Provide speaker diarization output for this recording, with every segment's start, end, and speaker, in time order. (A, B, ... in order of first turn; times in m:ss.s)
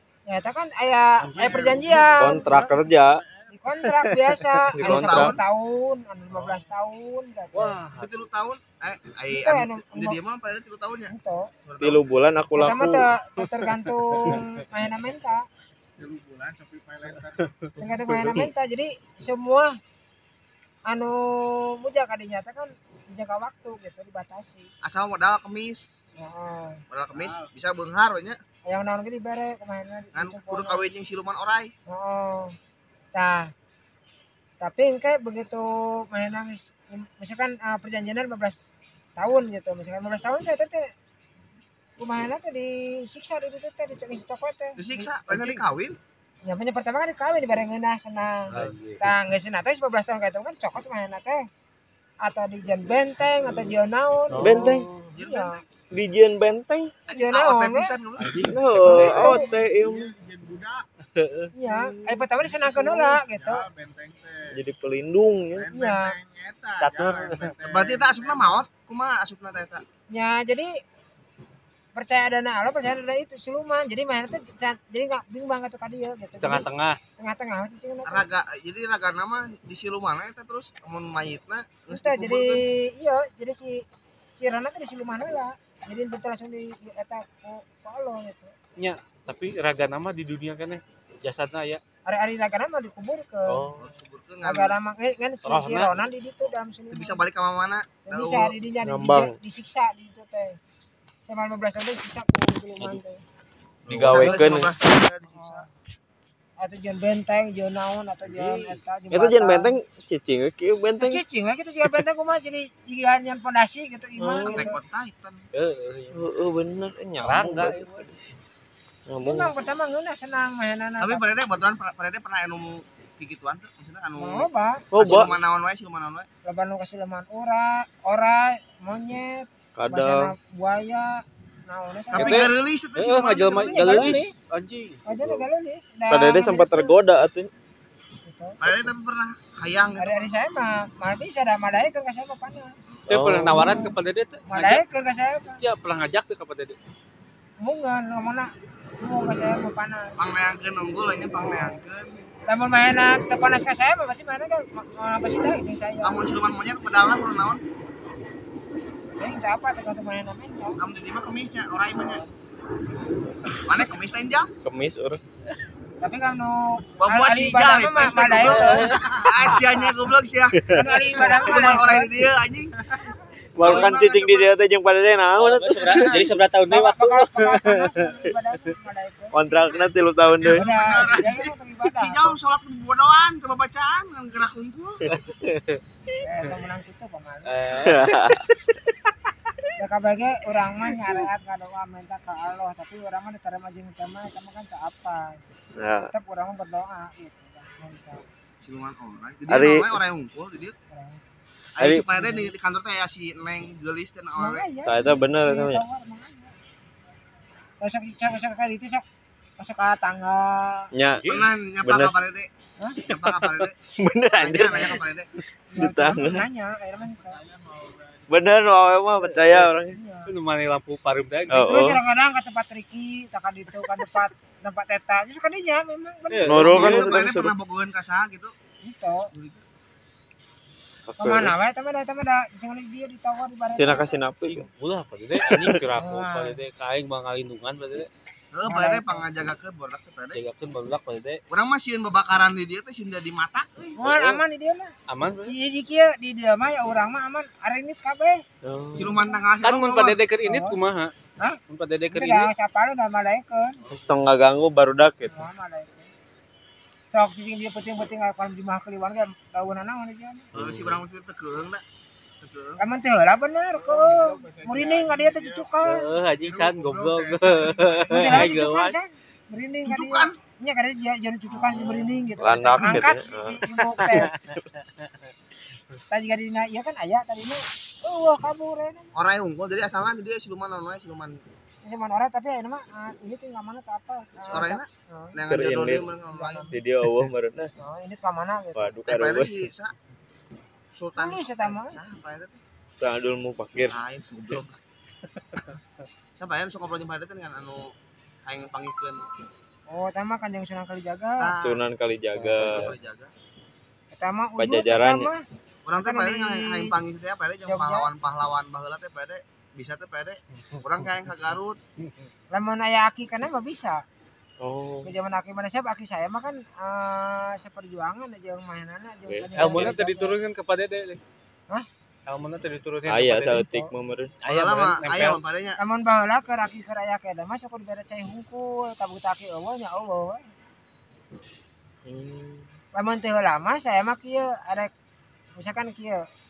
0:00.3-0:02.8 A
0:01.3-0:02.1 B
0:01.4-0:02.1 C
0:02.1-0:03.2 D
0:03.2-0:03.4 E
0:03.5-0:07.8 A
0:03.8-0:04.6 B
0:04.7-0:05.4 D
0:04.8-0:05.4 C
0:06.4-0:06.6 B
0:07.5-0:08.3 B
0:08.0-0:11.1 C
0:09.3-0:10.2 A
0:11.1-0:11.5 A
0:11.6-0:12.0 C
0:11.8-0:13.1 D
0:12.6-0:15.4 A
0:16.0-0:17.5 E
0:17.4-0:17.7 B
0:17.8-0:19.7 A
0:20.9-0:24.7 A
0:24.8-0:25.9 C
0:26.2-0:26.8 A
0:26.9-0:28.4 C
0:27.1-0:27.5 E
0:28.7-0:30.8 A
0:30.1-0:31.7 C
0:31.9-0:32.6 A
0:33.1-0:33.5 A
0:34.6-0:38.6 A
0:39.2-0:40.8 A
0:42.0-0:45.6 A
0:44.8-0:46.0 C
0:46.4-0:51.4 A
0:48.5-0:49.1 B
0:52.2-0:55.6 A
0:54.3-0:55.1 B
0:54.4-0:54.9 D
0:55.1-0:55.6 C
0:55.9-0:56.9 D
0:57.1-0:59.0 C
0:57.1-0:58.0 A
0:58.2-0:59.2 B
0:58.4-1:00.1 D
0:58.9-0:59.5 A
0:58.9-1:00.9 E
1:01.2-1:01.5 D
1:01.6-1:03.7 A
1:02.3-1:04.6 E
1:04.5-1:05.7 D
1:05.5-1:08.7 E
1:05.7-1:06.2 A
1:06.8-1:07.6 B
1:07.6-1:09.8 C
1:10.1-1:10.7 A
1:12.0-1:16.7 A
1:16.4-1:17.0 B
1:17.2-1:18.3 A
1:18.0-1:22.6 C
1:21.9-1:23.8 A
1:24.4-1:28.5 A
1:28.8-1:31.8 B
1:32.1-1:33.7 A
1:33.5-1:33.7 B
1:33.8-1:34.8 C
1:34.4-1:37.2 A
1:35.5-1:36.0 B
1:36.9-1:38.6 C
1:38.0-1:40.6 A
1:38.8-1:39.4 D
1:41.2-1:43.2 A
1:43.9-1:44.1 B
1:43.9-1:44.7 D
1:43.9-1:45.7 C
1:44.2-1:44.7 A
1:45.3-1:45.7 A
1:46.6-1:49.8 A
1:48.2-1:48.8 B
1:49.1-1:51.2 D
1:51.0-1:54.8 A
1:54.2-1:54.7 D
1:54.5-1:55.5 C
1:55.5-1:56.2 B
1:56.1-1:58.1 D
1:57.2-1:58.1 B
1:59.1-1:59.5 D
1:59.2-2:01.3 A
2:01.0-2:06.3 C
2:04.2-2:04.9 A
2:04.9-2:05.3 D
2:06.4-2:12.5 A
2:09.8-2:10.3 D
2:12.1-2:15.0 B
2:12.1-2:14.1 C
2:13.7-2:14.4 A
2:15.1-2:17.0 A
2:16.1-2:17.5 D
2:18.2-2:18.6 A
2:18.6-2:20.3 C
2:20.0-2:22.8 A
2:23.1-2:24.8 B
2:23.1-2:23.7 D
2:23.5-2:24.0 A
2:24.5-2:25.6 A
2:25.6-2:26.8 B
2:27.6-2:30.3 A
2:30.2-2:32.2 C
2:32.5-2:36.2 A
2:36.0-2:37.6 C
2:39.2-2:40.8 A
2:40.8-2:42.2 C
2:43.7-2:44.5 C
2:44.6-2:45.2 D
2:46.0-2:49.7 A
2:47.0-2:50.6 C
2:48.5-2:49.0 B
2:50.5-2:51.2 D
2:50.7-2:52.1 A
2:51.2-2:52.8 C
2:53.6-2:56.3 D
2:53.6-2:54.5 C
2:55.4-2:58.2 B
2:56.1-2:59.7 A
2:59.3-3:00.8 D
3:00.5-3:01.3 E
3:00.5-3:02.4 A
3:01.2-3:05.1 C
3:05.3-3:05.8 B
3:06.2-3:07.9 A
3:07.4-3:08.4 B
3:07.8-3:08.7 D
3:09.8-3:15.4 A
3:15.8-3:16.1 D
3:16.1-3:18.2 A
3:18.6-3:20.7 C
3:19.5-3:20.0 D
3:20.9-3:21.2 A
3:21.8-3:24.7 C
3:21.8-3:22.1 D
3:24.4-3:26.5 A
3:24.8-3:25.8 D
3:27.8-3:29.0 A
3:29.6-3:30.9 A
3:30.9-3:32.1 D
3:31.3-3:32.5 C
3:33.0-3:33.7 C
3:33.3-3:35.0 D
3:34.3-3:35.3 C
3:35.7-3:37.4 A
3:35.8-3:36.5 D
3:37.0-3:38.5 E
3:38.3-3:40.0 D
3:39.9-3:40.3 A
3:40.3-3:41.7 B
3:41.5-3:42.0 D
3:41.6-3:47.1 A
3:46.3-3:46.7 B
3:46.4-3:47.5 D
3:46.7-3:48.5 C
3:48.8-3:49.3 A
3:49.3-3:49.6 C
3:51.0-3:51.5 D
3:51.2-3:54.1 A
3:53.8-3:54.7 D
3:54.5-3:58.1 B
3:55.4-3:55.8 D
3:56.0-3:56.6 A
3:58.5-4:00.4 C
3:58.7-3:59.3 A
4:00.3-4:01.4 B
4:01.5-4:04.0 C
4:04.0-4:04.9 A
4:04.1-4:04.4 D
4:05.1-4:05.6 B
4:05.5-4:08.4 A
4:08.7-4:09.1 D
4:09.0-4:10.2 C
4:09.1-4:09.4 A
4:09.6-4:11.1 B
4:10.4-4:10.8 A
4:11.7-4:12.5 B
4:12.1-4:13.8 A
4:13.8-4:14.1 C
4:13.9-4:15.4 D
4:15.3-4:16.1 A
4:17.1-4:20.5 A
4:20.5-4:21.0 D
4:20.5-4:21.8 C
4:22.4-4:22.8 C
4:22.8-4:26.0 A
4:23.8-4:25.7 E
4:25.8-4:29.0 B
4:26.4-4:28.5 E
4:28.1-4:34.3 A
4:29.9-4:30.4 C
4:31.5-4:32.1 C
4:32.4-4:34.5 D
4:34.0-4:34.3 B
4:36.1-4:39.1 A
4:39.2-4:41.4 C
4:41.8-4:45.4 A
4:44.5-4:46.8 C
4:45.4-4:46.1 D
4:46.3-4:46.8 A
4:46.7-4:47.7 D
4:47.8-4:48.9 A
4:48.8-4:49.7 D
4:49.1-4:49.9 C
4:51.0-4:52.6 C
4:51.2-4:52.0 A
4:53.0-4:54.0 D
4:53.9-4:54.8 C
4:56.4-4:57.9 C
4:58.4-4:59.2 C
4:59.9-5:01.5 A
5:01.4-5:01.8 C
5:01.6-5:03.0 D
5:02.3-5:02.7 B
5:02.6-5:03.3 C
5:04.1-5:05.4 A
5:04.6-5:05.3 D
5:05.8-5:11.8 C
5:06.0-5:07.0 A
5:07.7-5:08.1 A
5:12.5-5:14.0 A
5:14.6-5:15.1 D
5:15.0-5:20.4 A
5:19.3-5:20.0 D
5:19.6-5:21.2 B
5:22.3-5:23.7 B
5:23.1-5:24.4 D
5:23.6-5:23.9 A
5:24.4-5:25.4 B
5:24.5-5:25.8 C
5:25.8-5:30.4 A
5:32.1-5:32.7 D
5:33.0-5:34.9 A
5:35.6-5:36.2 A